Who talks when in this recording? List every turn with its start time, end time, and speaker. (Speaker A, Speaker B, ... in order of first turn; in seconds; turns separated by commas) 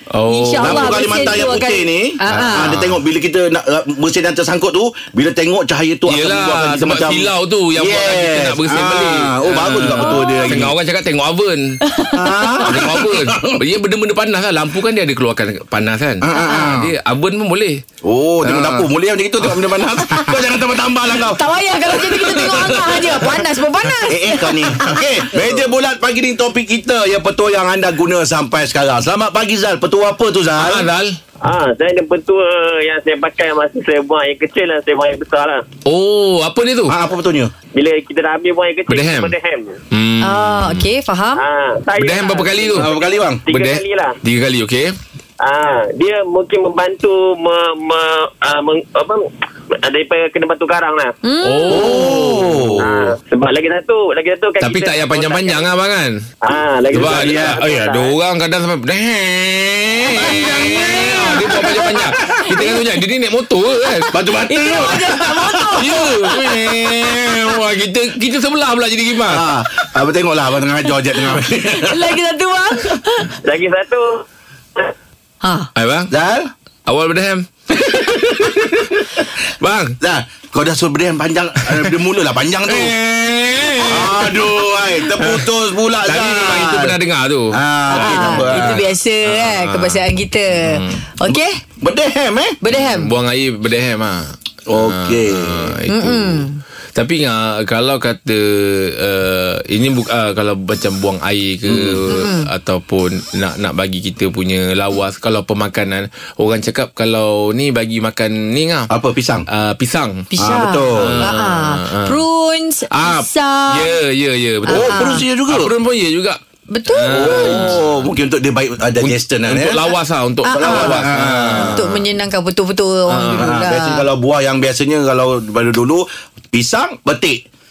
Speaker A: 0.1-1.4, Speaker B: 0.3-2.7, Speaker C: 0.6-10.7, Speaker A: 2.3-3.0, Speaker A: 6.1-11.8, Speaker B: 10.0-10.5, Speaker B: 11.8-12.6, Speaker C: 12.1-13.6, Speaker A: 12.7-17.8, Speaker C: 16.2-16.9, Speaker B: 16.3-16.7, Speaker C: 18.0-23.5, Speaker A: 18.4-18.9, Speaker B: 20.1-20.4, Speaker B: 21.1-25.5, Speaker C: 24.1-30.9, Speaker A: 30.6-31.2, Speaker D: 31.4-35.6, Speaker A: 35.9-37.0, Speaker C: 36.9-37.5, Speaker D: 37.7-39.8, Speaker A: 38.9-39.3, Speaker A: 39.9-40.9, Speaker B: 40.2-41.4, Speaker D: 41.4-44.2, Speaker A: 42.0-42.9, Speaker C: 42.8-43.4, Speaker A: 43.5-45.0, Speaker D: 45.4-49.3, Speaker D: 49.8-51.1, Speaker B: 51.2-52.4, Speaker A: 51.4-52.9, Speaker C: 51.7-53.0, Speaker D: 52.8-55.6, Speaker A: 54.6-56.2, Speaker D: 56.4-58.2, Speaker A: 56.9-64.2, Speaker C: 56.9-57.6, Speaker C: 60.0-62.8, Speaker B: 60.2-61.8, Speaker C: 64.1-67.6, Speaker B: 64.5-66.1, Speaker A: 65.8-69.5, Speaker C: 69.3-72.0, Speaker B: 71.8-73.3, Speaker D: 73.4-74.2, Speaker B: 75.4-75.7, Speaker A: 75.8-76.1, Speaker C: 76.1-76.5, Speaker A: 76.9-80.0, Speaker C: 77.7-79.2, Speaker C: 80.0-83.0, Speaker A: 82.7-85.5, Speaker C: 83.8-87.0, Speaker A: 86.0-91.0, Speaker C: 87.5-88.8, Speaker B: 87.9-91.6, Speaker C: 91.3-92.6, Speaker B: 92.6-93.1, Speaker A: 92.7-108.9, Speaker C: 94.7-95.8, Speaker B: 95.9-96.6, Speaker C: 101.7-102.1, Speaker B: 102.1-102.5, Speaker C: 108.9-109.5, Speaker A: 109.5-110.3, Speaker B: 110.3-114.0, Speaker C: 110.4-111.3, Speaker A: 111.0-112.2, Speaker A: 112.9-118.1, Speaker B: 114.7-115.2, Speaker C: 114.7-115.7, Speaker B: 116.7-117.8, Speaker C: 117.1-119.8, Speaker A: 119.0-122.0, Speaker B: 120.5-121.0, Speaker C: 120.5-121.8, Speaker B: 121.7-124.0, Speaker A: 123.1-123.5, Speaker C: 123.4-127.4